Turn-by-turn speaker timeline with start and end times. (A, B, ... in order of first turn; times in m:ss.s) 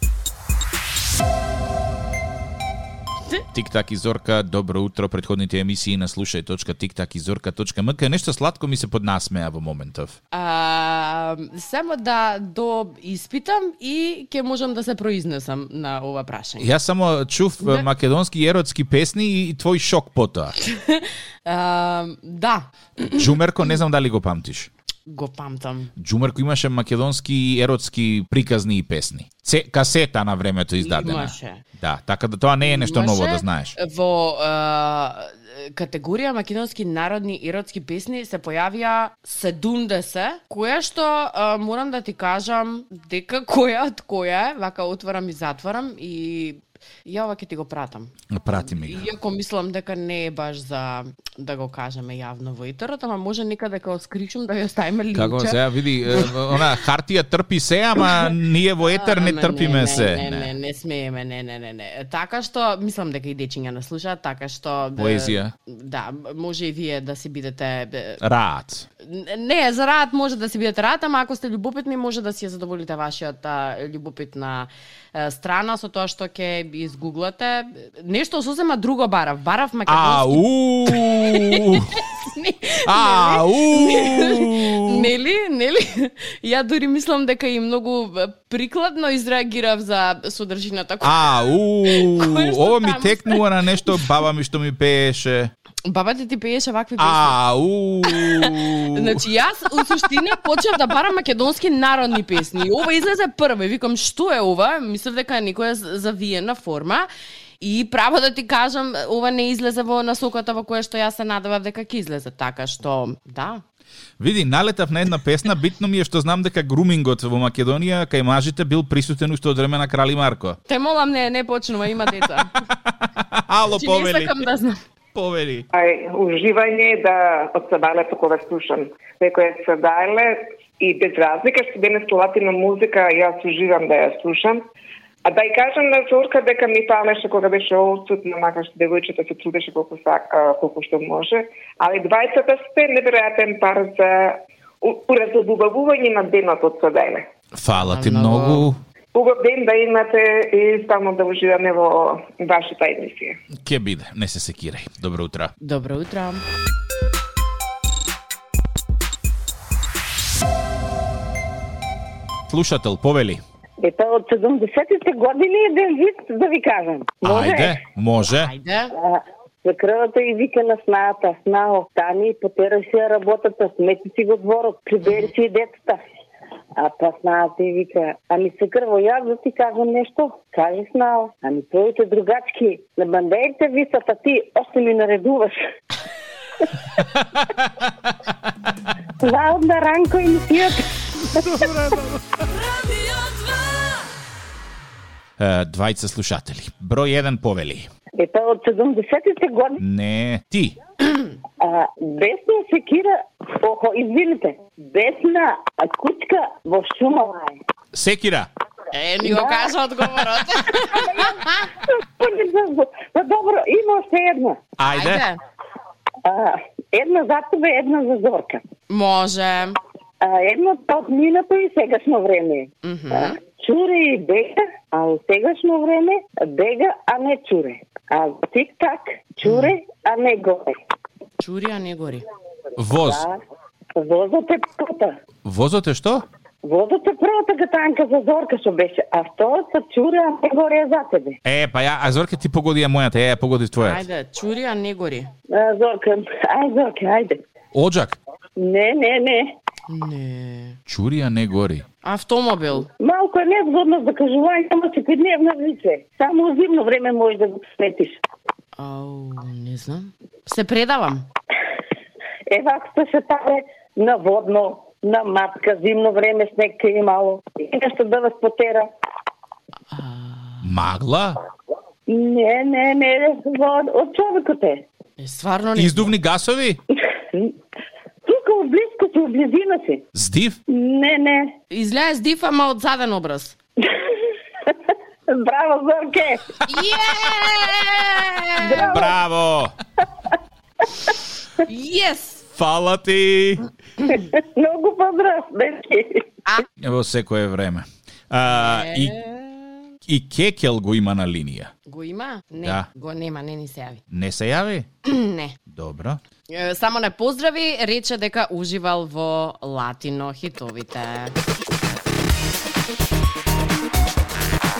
0:03.5-0:10.2 A
0:10.3-0:16.7 B
0:16.6-0:20.5 A
0:20.6-0:23.3 B
0:23.1-0:24.7 A
0:25.1-0:25.9 B
0:26.0-0:33.7 A
0:30.8-0:31.6 B
0:32.6-0:56.6 B
0:48.3-0:49.1 A
0:55.1-1:00.5 A
0:58.8-1:08.2 B
1:05.0-1:05.5 A
1:08.2-1:08.8 A
1:09.0-1:33.9 B
1:19.9-1:22.0 A
1:22.8-1:25.1 A
1:31.0-1:35.5 A
1:35.9-1:37.4 B
1:37.0-1:39.2 A
1:38.1-1:47.1 B
1:47.6-1:53.6 B
1:54.2-2:00.6 A
2:00.7-2:02.5 B
2:02.0-2:04.4 A
2:03.7-2:04.8 B
2:05.1-2:05.7 A
2:05.7-2:14.6 C
2:15.2-2:27.2 C
2:27.5-2:28.8 A
2:27.8-2:28.7 B
2:29.1-2:33.4 C
2:33.6-2:35.5 A
2:35.6-2:36.4 B
2:42.5-2:43.4 A
2:43.8-2:47.8 D
2:47.2-2:48.5 A
2:48.4-2:48.9 B
2:49.0-2:56.0 D
2:56.8-3:05.6 D
3:09.2-3:11.5 D
3:11.4-3:12.2 A
3:15.4-3:17.9 A
3:18.2-3:19.8 D
3:19.8-3:20.8 A
3:21.6-3:27.6 D
3:27.9-3:28.5 A
3:28.9-3:31.5 B
3:29.2-3:29.7 D
3:30.8-3:34.6 D
3:34.8-3:35.2 A
3:34.9-3:35.4 B
3:36.2-3:38.6 D
3:38.9-3:39.7 B
3:40.2-3:50.7 D
3:42.8-3:43.4 B
3:49.4-3:49.7 B
3:51.4-3:52.2 B
3:52.8-3:53.2 A
3:53.0-3:53.4 D
3:53.9-3:55.2 D
3:55.4-3:56.2 A
3:56.6-4:01.4 D
4:01.4-4:04.0 A
4:03.8-4:05.3 B
4:05.5-4:07.4 D
4:07.7-4:08.2 A
4:08.6-4:09.5 D
4:09.9-4:10.8 B
4:10.9-4:11.8 A
4:12.0-4:12.9 B
4:12.9-4:18.2 D
4:18.8-4:21.2 B
4:22.5-4:28.9 D
4:29.9-4:30.6 B
4:30.6-4:31.4 A
4:32.1-4:34.8 D
4:35.2-4:36.1 B
4:35.8-4:36.8 A
4:38.2-4:40.0 D
4:40.1-4:40.6 A
4:40.7-4:41.5 D
4:41.7-4:43.6 B
4:45.3-4:46.6 D
4:46.7-4:49.0 B
4:48.6-4:49.1 D
4:48.8-4:49.7 A
4:51.6-4:52.4 B
4:52.6-4:53.6 A
4:54.1-4:56.3 D
4:56.8-4:59.2 A
4:58.4-4:59.7 B
5:00.1-5:01.7 A
5:01.9-5:04.0 B
5:04.1-5:04.9 A
5:05.0-5:05.6 B
5:05.7-5:06.2 A
5:06.5-5:11.4 B